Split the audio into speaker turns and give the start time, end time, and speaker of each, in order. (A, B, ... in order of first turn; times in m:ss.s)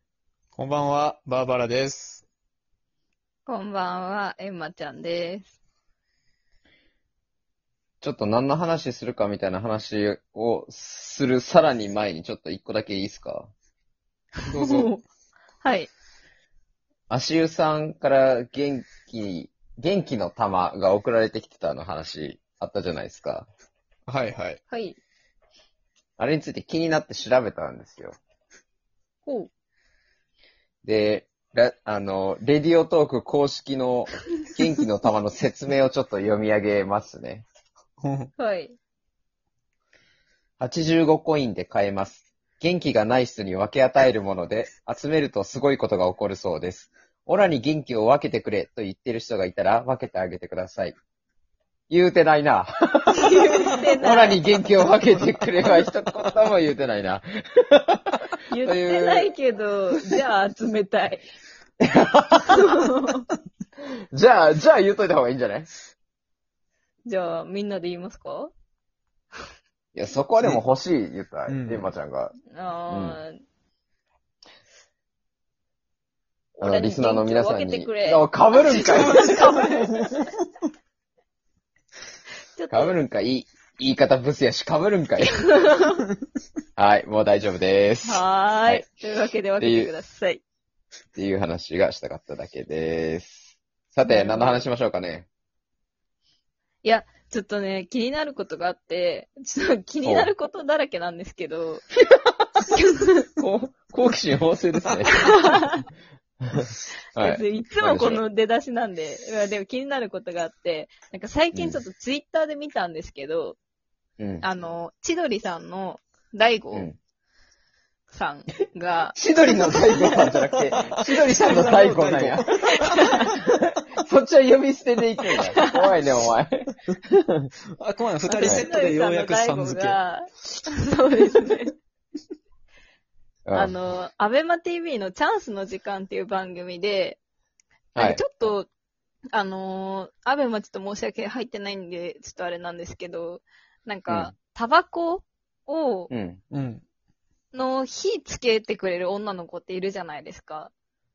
0:00.6-0:02.2 A
0:03.5-0:05.6 B
0:08.0-0:13.5 C
0:14.5-0:15.0 B
0:14.5-0:14.9 A
0:15.6-0:15.9 B
0:17.1-0:23.5 C
0:24.1-0:24.6 A
0:24.7-0:25.0 B
0:26.2-0:28.2 C
0:29.2-0:29.5 B
0:30.8-0:37.5 C
0:38.0-0:38.3 A
0:38.4-0:38.8 B
0:40.6-0:51.0 C
0:51.9-0:59.3 C
0:53.1-0:54.4 B
0:58.5-1:01.3 B
1:01.8-1:02.6 C
1:02.5-1:03.2 B
1:04.1-1:05.7 C
1:07.1-1:08.5 B
1:10.0-1:12.3 C
1:11.5-1:11.9 A
1:12.5-1:13.4 B
1:12.9-1:13.2 C
1:16.6-1:19.4 C
1:16.6-1:20.1 B
1:19.2-1:20.0 A
1:22.6-1:23.0 B
1:22.7-1:25.5 C
1:25.3-1:26.0 B
1:26.8-1:28.8 C
1:28.0-1:30.4 B
1:29.6-1:29.9 C
1:31.2-1:35.3 C
1:34.0-1:34.7 B
1:36.8-1:41.9 B
1:40.0-1:40.3 C
1:42.7-1:43.3 B
1:43.4-1:45.6 C
1:45.2-1:45.8 B
1:46.6-1:48.2 C
1:47.2-1:53.6 B
1:51.5-1:51.8 C
1:54.2-1:54.4 C
1:54.4-1:56.9 B
1:58.1-2:00.3 B
1:59.2-2:02.5 C
2:01.3-2:03.3 A
2:01.4-2:01.9 B
2:03.0-2:03.2 B
2:03.1-2:07.5 C
2:05.5-2:05.8 B
2:07.8-2:10.0 A
2:08.3-2:11.8 B
2:13.5-2:13.8 C
2:13.5-2:17.2 B
2:18.0-2:18.2 C
2:18.0-2:18.7 B
2:19.3-2:26.1 B
2:24.1-2:24.3 C
2:26.1-2:26.4 C
2:26.5-2:26.8 A
2:27.5-2:30.7 B